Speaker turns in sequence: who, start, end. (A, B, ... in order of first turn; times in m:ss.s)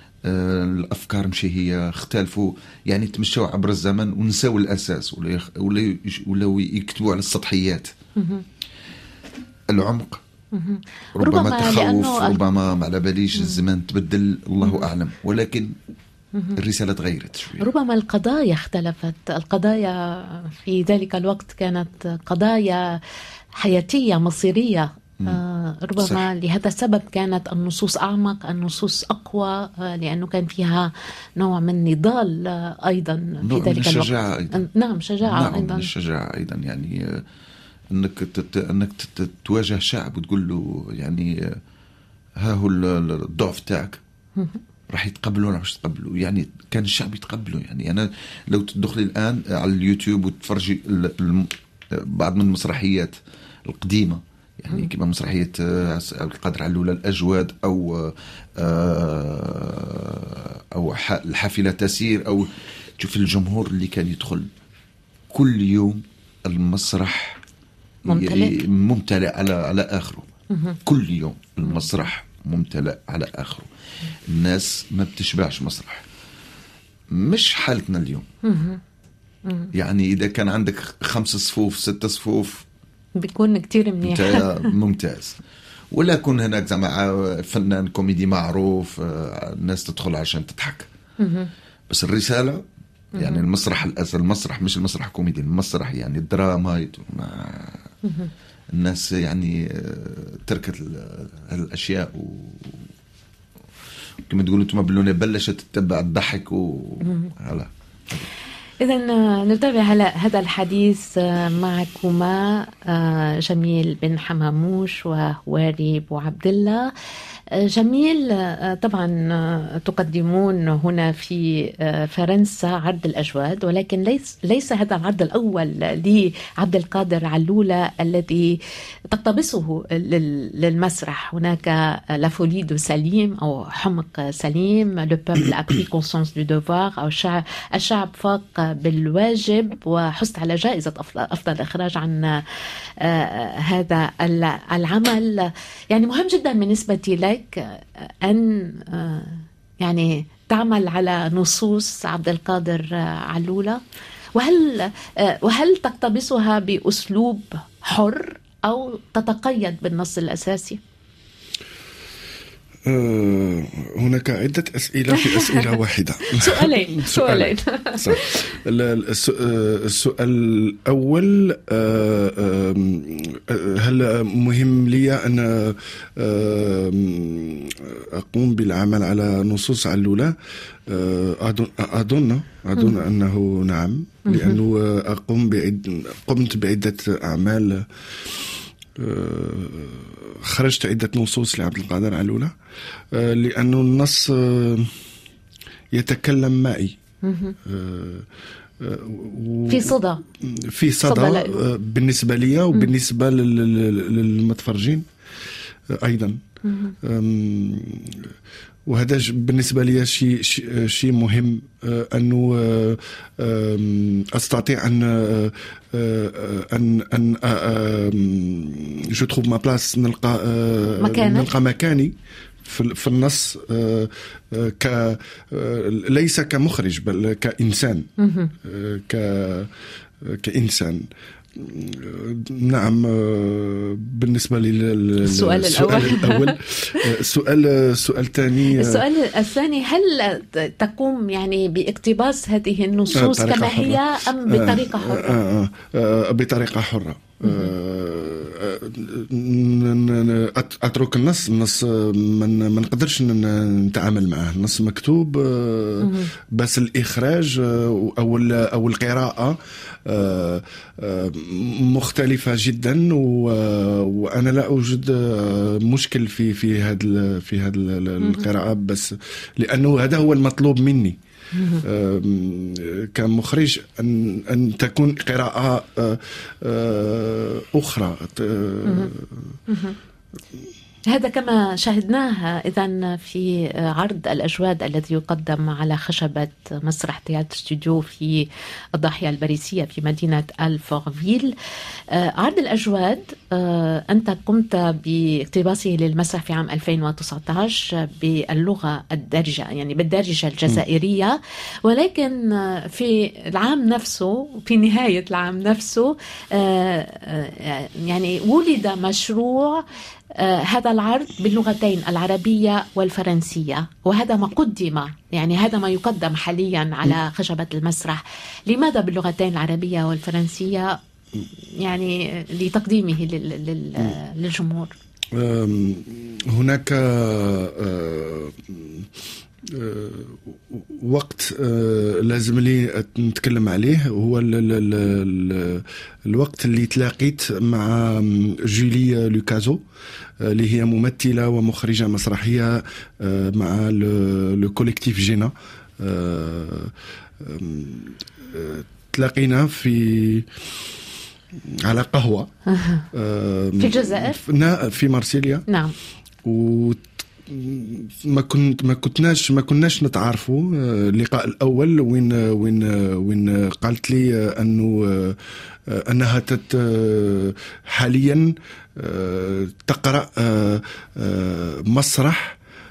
0:00.2-0:07.9 A
0:08.2-0:08.4 B
0:09.7-0:10.2 A
0:10.5-0:12.4 B
0:11.2-0:15.7 A
0:14.6-0:14.9 B
0:16.6-0:17.6 A
0:17.6-0:22.9 B
0:23.6-0:35.9 B
0:26.0-0:26.2 A
0:33.4-0:34.6 A
0:35.2-0:37.2 A
0:37.9-0:41.6 A
0:42.4-0:44.0 A
0:44.9-0:53.1 A
0:53.7-1:04.5 A
1:05.3-1:07.4 A
1:08.1-1:08.6 B
1:08.1-1:10.3 A
1:10.5-1:10.8 B
1:10.8-1:13.7 A
1:14.3-1:16.0 A
1:17.1-1:18.3 A
1:18.4-1:18.8 B
1:19.7-1:22.6 A
1:23.2-1:24.7 B
1:24.0-1:25.4 A
1:25.9-1:30.9 A
1:31.2-1:31.5 B
1:31.9-1:32.6 A
1:33.2-1:37.8 A
1:33.2-1:33.4 B
1:38.0-1:38.3 B
1:38.7-1:42.9 A
1:44.3-1:48.3 A
1:48.8-1:56.9 B
1:57.6-2:08.6 B
2:09.1-2:22.4 B
2:23.0-2:33.8 B
2:34.4-2:40.8 B
2:42.8-3:00.3 C
2:45.1-2:45.7 B
2:46.3-2:48.4 B
3:00.9-3:08.4 C
3:04.3-3:04.6 B
3:09.0-3:12.5 C
3:13.1-3:14.9 C
3:15.9-3:17.0 C
3:17.2-3:17.5 B
3:17.6-3:18.3 C
3:18.8-3:25.1 C
3:19.7-3:20.2 B
3:21.0-3:21.6 B
3:25.9-3:26.4 C
3:26.6-3:26.9 B
3:27.0-3:28.3 C
3:28.9-3:48.1 C
3:41.0-3:41.5 B
3:48.2-3:48.5 B
3:48.6-3:49.7 C
3:50.2-3:59.0 C
3:55.2-3:57.0 B
3:58.7-4:05.4 B
4:03.1-4:31.2 C
4:07.4-4:07.7 B
4:16.0-4:16.3 B
4:28.2-4:28.5 B
4:31.5-4:31.8 B
4:31.8-4:39.6 C
4:38.8-4:39.1 B
4:39.7-4:40.0 B
4:41.1-4:51.5 B
4:52.1-5:21.0 B
5:21.8-5:25.0 B
5:25.3-5:29.1 C
5:29.6-5:39.8 C
5:40.4-5:50.5 C
5:51.7-5:52.5 C
5:52.7-5:53.0 B
5:53.1-5:55.6 C
5:53.8-5:54.4 B
5:55.7-5:55.9 B
5:56.4-6:12.6 C